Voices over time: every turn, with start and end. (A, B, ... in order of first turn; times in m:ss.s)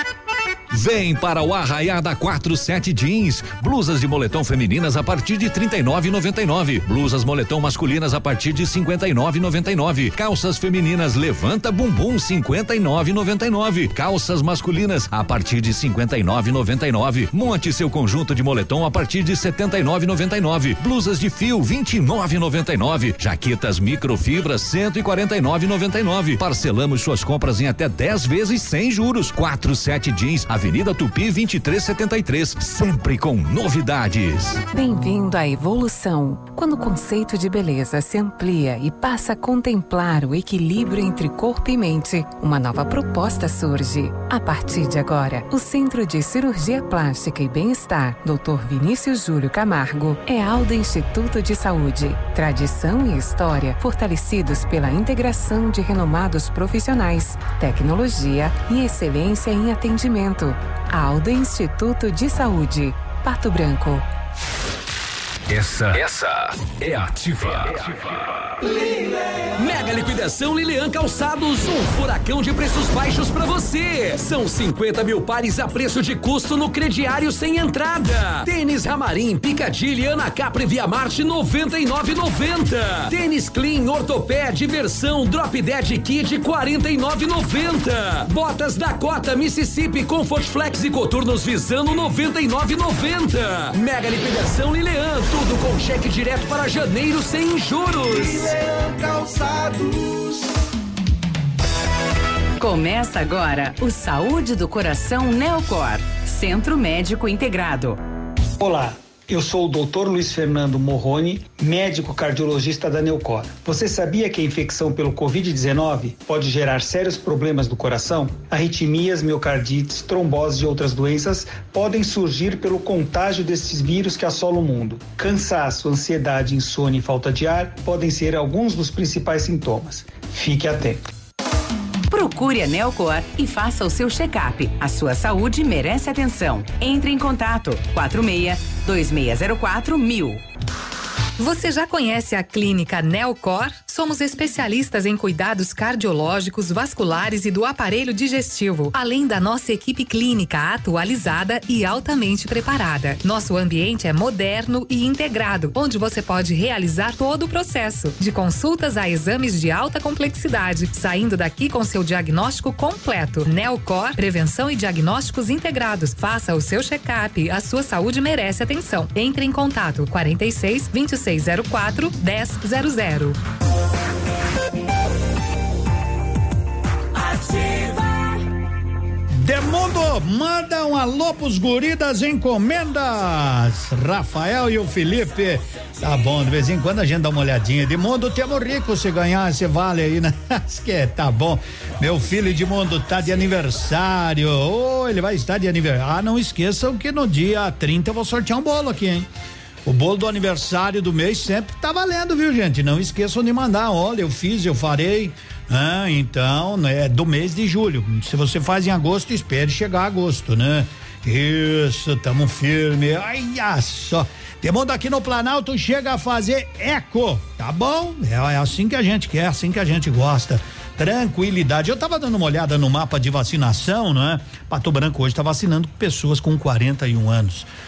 0:00.7-0:34.6 A
0:34.7-1:04.0 B
1:06.8-1:07.8 C
1:09.6-1:38.5 C
1:38.2-1:40.4 D
1:42.6-1:48.0 E
1:48.6-2:11.0 F
2:12.1-2:20.4 E
2:21.4-2:53.4 G
2:59.4-3:19.3 H
3:19.8-3:47.7 H